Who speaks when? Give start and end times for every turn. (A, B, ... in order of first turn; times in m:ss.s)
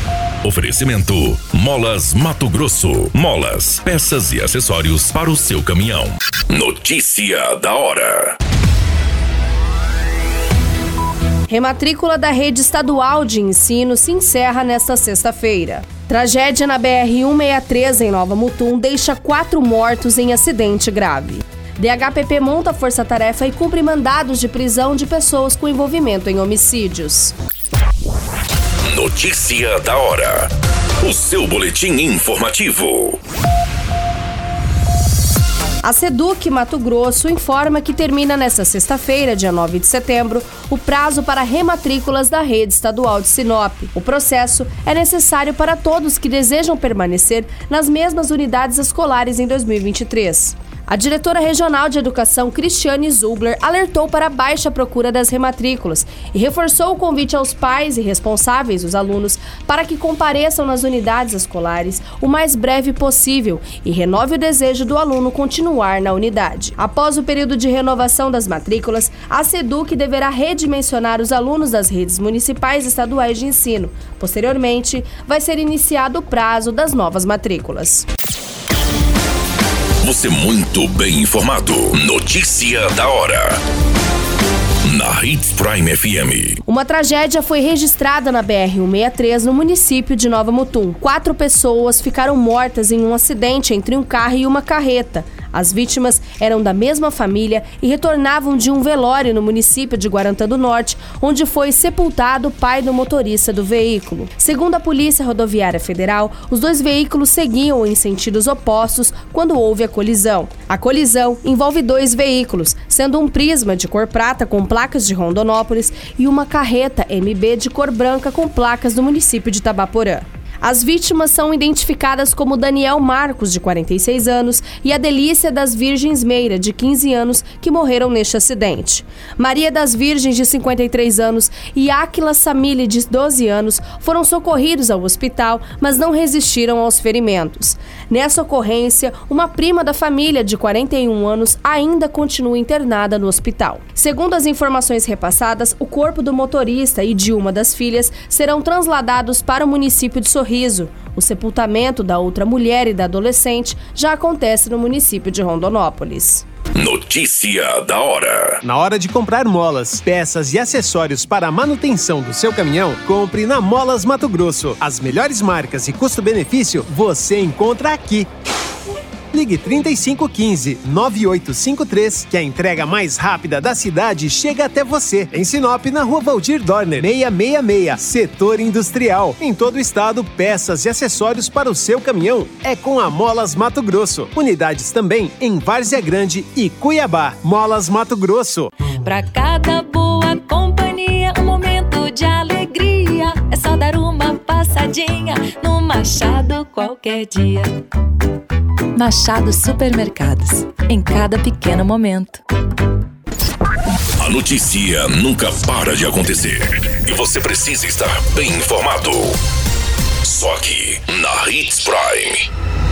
0:00.4-0:08.4 A
0:11.5-0:27.3 B
0:28.9-0:33.2 A
0:35.8-1:18.1 B
1:20.0-1:23.6 A
1:24.8-1:26.6 A
1:26.6-2:36.4 B
2:36.7-2:38.6 A
2:38.6-2:48.3 C
2:49.3-3:08.7 C
3:09.0-3:17.7 D
3:18.9-3:22.4 D
3:24.2-3:29.4 A
3:30.2-3:32.5 A